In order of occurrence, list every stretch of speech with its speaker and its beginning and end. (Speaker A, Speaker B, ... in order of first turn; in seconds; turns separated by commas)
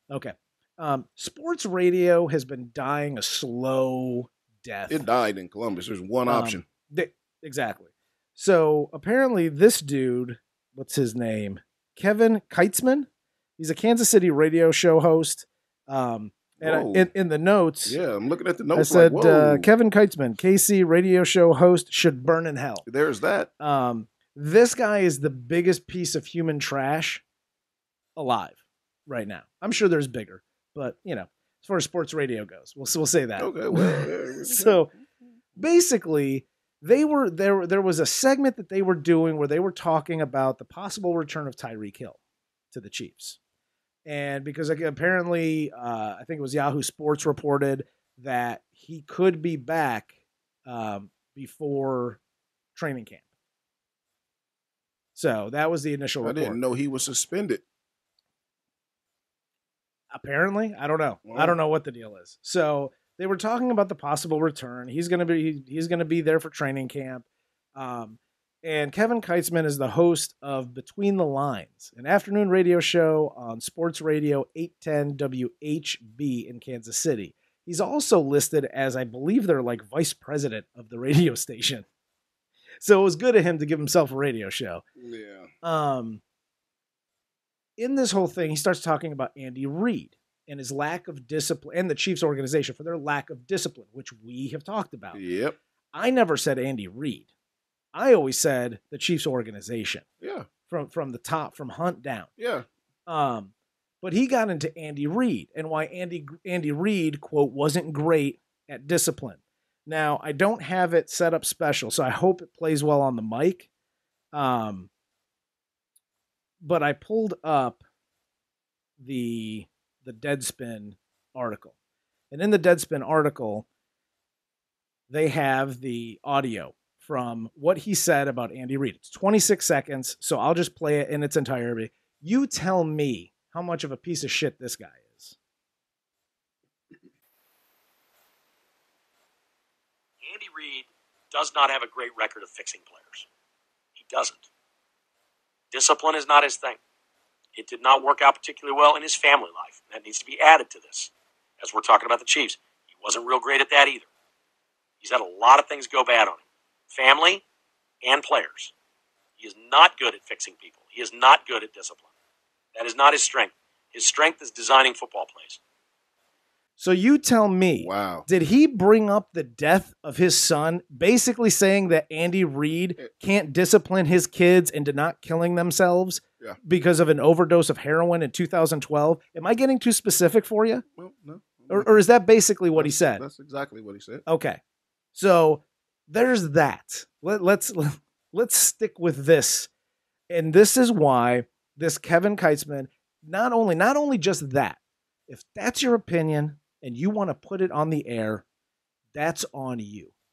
Speaker A: 0.1-5.0, Speaker B: 4.9-6.6, Speaker A: 6.2-18.0, Speaker B: 16.6-17.1, Speaker B: 17.8-19.7, Speaker A: 18.7-22.8, Speaker B: 22.9-23.5, Speaker A: 23.6-27.2, Speaker A: 28.2-34.9, Speaker B: 33.4-34.8, Speaker A: 35.6-42.2, Speaker A: 42.7-43.4, Speaker A: 44.0-50.1, Speaker A: 50.7-52.2, Speaker A: 52.8-53.2, Speaker A: 55.1-56.6, Speaker B: 56.2-57.6, Speaker A: 60.1-81.8, Speaker B: 61.2-61.5, Speaker A: 82.8-84.8, Speaker B: 85.0-85.5, Speaker A: 85.6-86.2, Speaker A: 87.8-95.2, Speaker B: 95.1-95.6, Speaker A: 95.9-97.3, Speaker A: 97.9-100.0, Speaker B: 100.2-100.5, Speaker A: 100.7-102.3, Speaker B: 102.4-102.7, Speaker A: 103.1-113.7, Speaker A: 114.3-114.9, Speaker A: 116.6-117.8, Speaker A: 119.0-121.7, Speaker A: 122.3-123.7, Speaker A: 125.1-135.3, Speaker C: 140.2-143.2, Speaker C: 144.0-144.4, Speaker C: 145.7-146.8, Speaker C: 147.5-154.1, Speaker C: 155.0-157.4, Speaker C: 158.0-158.7, Speaker C: 159.4-162.0, Speaker C: 162.8-165.6, Speaker A: 166.8-180.8, Speaker B: 167.8-168.2, Speaker B: 181.0-182.0, Speaker A: 181.7-183.2, Speaker B: 182.8-184.2, Speaker A: 184.2-184.6, Speaker A: 185.1-189.7, Speaker A: 190.3-198.4, Speaker A: 199.1-200.1